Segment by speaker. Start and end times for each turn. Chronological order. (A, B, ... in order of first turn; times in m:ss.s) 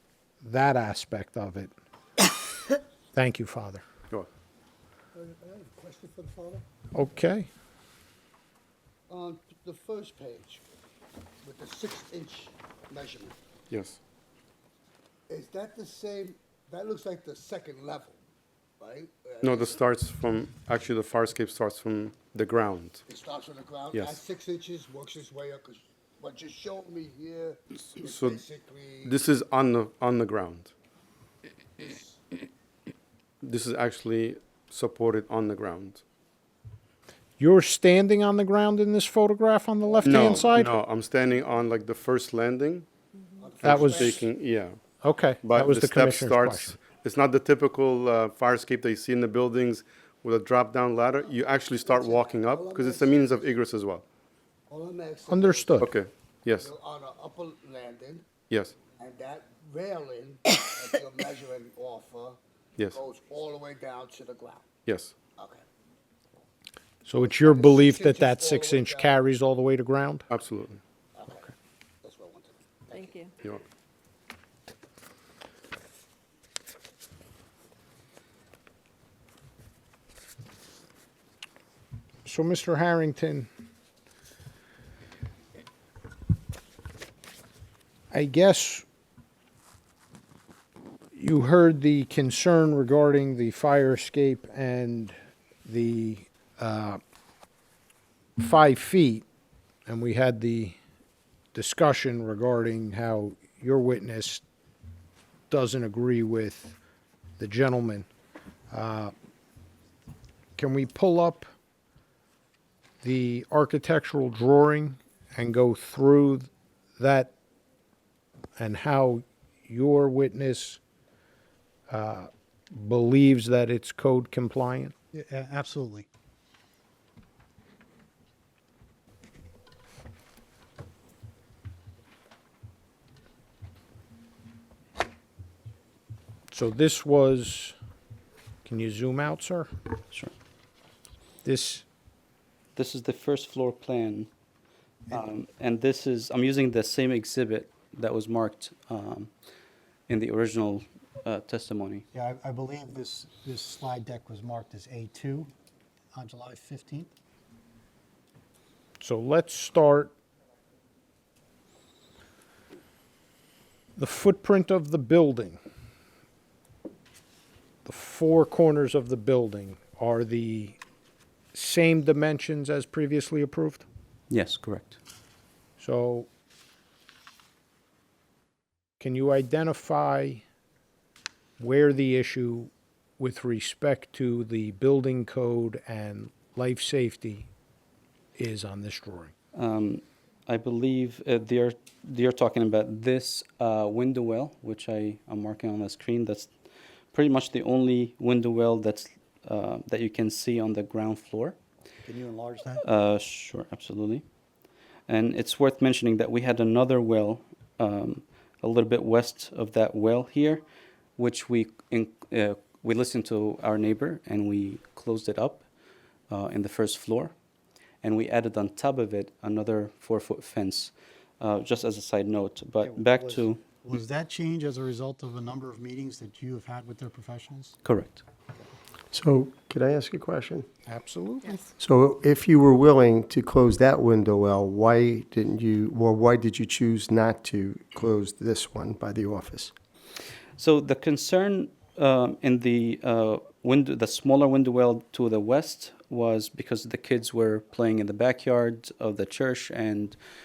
0:00.4-0:01.7 A
0:03.1-0:03.8 A
0:05.1-0:06.6 B
0:06.9-0:07.5 A
0:09.1-0:10.6 B
0:11.4-0:13.4 B
0:13.7-0:14.0 C
0:15.3-0:18.2 B
0:18.8-0:19.8 B
0:19.4-0:23.0 C
0:23.1-0:29.2 B
0:23.9-0:24.2 C
0:28.0-0:28.4 C
0:29.0-0:30.7 C
0:31.8-0:32.1 B
0:33.4-0:36.0 C
0:37.4-0:40.7 A
0:39.9-0:40.4 B
0:40.0-0:42.9 C
0:43.4-0:44.3 B
0:43.6-0:44.2 A
0:43.6-0:44.8 C
0:45.0-0:46.8 A
0:45.4-0:54.0 C
0:51.2-0:53.6 B
0:54.7-0:55.9 B
0:55.3-0:56.0 A
0:55.8-0:56.7 C
0:56.5-0:58.3 B
0:58.5-0:58.8 C
0:59.0-1:02.4 B
1:02.9-1:04.7 B
1:04.8-1:05.1 C
1:05.4-1:05.6 B
1:07.0-1:10.2 A
1:07.3-1:09.1 B
1:10.3-1:10.8 C
1:11.2-1:11.5 B
1:12.0-1:13.2 B
1:22.2-1:23.5 A
1:28.1-1:28.8 A
1:31.1-1:37.0 A
1:38.4-1:39.2 A
1:39.9-1:40.8 A
1:41.5-1:44.4 A
1:45.5-1:46.8 A
1:47.4-1:48.1 A
1:48.7-1:49.1 A
1:50.6-1:51.5 A
1:53.0-1:57.3 A
1:58.6-2:00.8 A
2:01.9-2:04.9 A
2:05.1-2:06.1 D
2:16.5-2:17.7 A
2:18.6-2:19.7 A
2:21.4-2:21.8 A
2:22.7-2:24.3 E
2:25.1-2:29.3 E
2:30.1-2:32.0 E
2:32.1-2:35.5 D
2:36.1-2:37.1 D
2:39.0-2:40.1 A
2:44.0-2:45.6 A
2:47.8-2:50.8 A
2:51.5-2:53.8 A
2:54.3-2:55.0 E
2:55.8-2:56.3 A
2:59.0-3:00.4 A
3:01.6-3:07.5 A
3:08.4-3:09.3 A
3:09.5-3:16.5 E
3:17.1-3:21.6 E
3:22.0-3:22.8 D
3:22.8-3:24.2 E
3:25.1-3:30.6 E
3:31.2-3:35.6 E
3:36.3-3:37.3 E
3:38.0-3:43.6 E
3:42.8-3:47.8 D
3:47.8-3:48.2 E
3:49.1-3:50.6 F
3:50.8-3:51.6 A
3:51.8-3:59.7 F
4:00.6-4:10.2 E